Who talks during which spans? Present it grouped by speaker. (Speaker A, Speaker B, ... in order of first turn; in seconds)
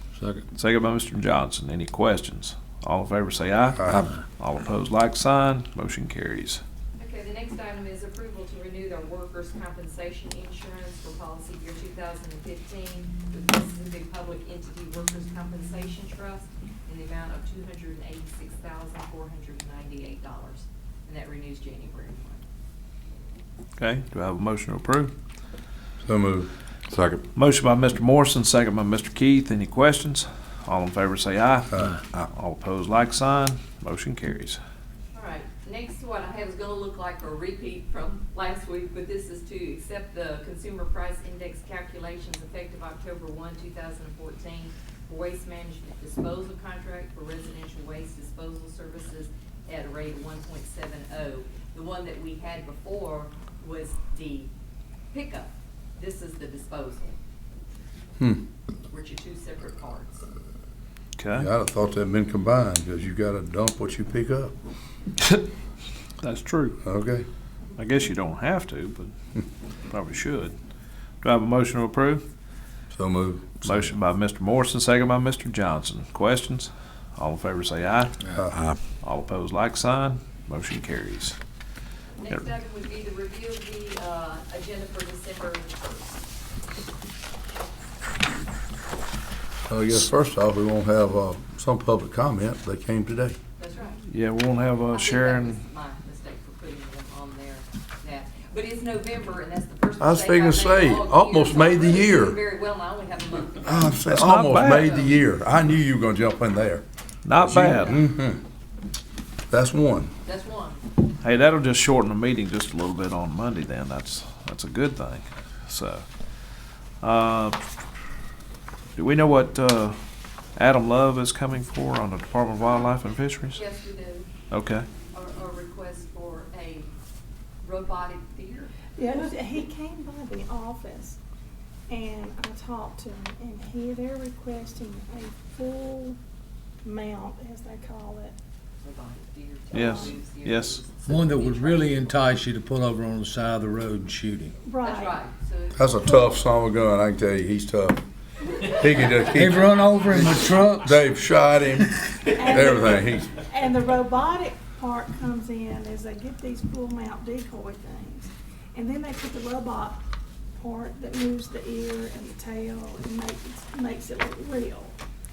Speaker A: 0.5-6.6, 23.8-25.1, 27.3-34.6, 61.2-61.5, 66.2-66.8, 67.8-69.1, 69.9-70.5, 71.2-72.2, 73.6-78.3, 79.0-81.4, 94.1-95.6, 104.0-104.9, 107.2-108.0, 111.2-116.0, 117.0-117.6, 119.0-120.0, 120.5-123.6, 124.5-124.9, 139.7-140.8
Speaker B: 3.8-4.1, 26.0-26.5, 31.7-32.0, 58.2-58.4, 61.3-64.5, 66.8-67.2, 72.9-73.9, 78.3-78.6, 89.7-93.3, 100.0-102.4, 103.6-106.8, 107.3-108.4, 109.5-110.1, 145.7-148.0, 148.6-153.3
Speaker C: 7.0-22.4, 35.1-54.5, 55.1-57.2, 58.9-60.2, 82.2-86.3, 93.6-94.0, 94.9-105.1, 110.2-110.8, 123.5-124.3, 125.1-126.9, 127.6-129.3, 138.8-142.2, 144.8-146.3
Speaker D: 129.0-131.2, 131.9-136.2, 136.8-138.3, 139.7-140.1, 144.6-145.2, 152.3-160.0, 160.6-164.9
Speaker E: 142.1-144.4, 149.4-150.2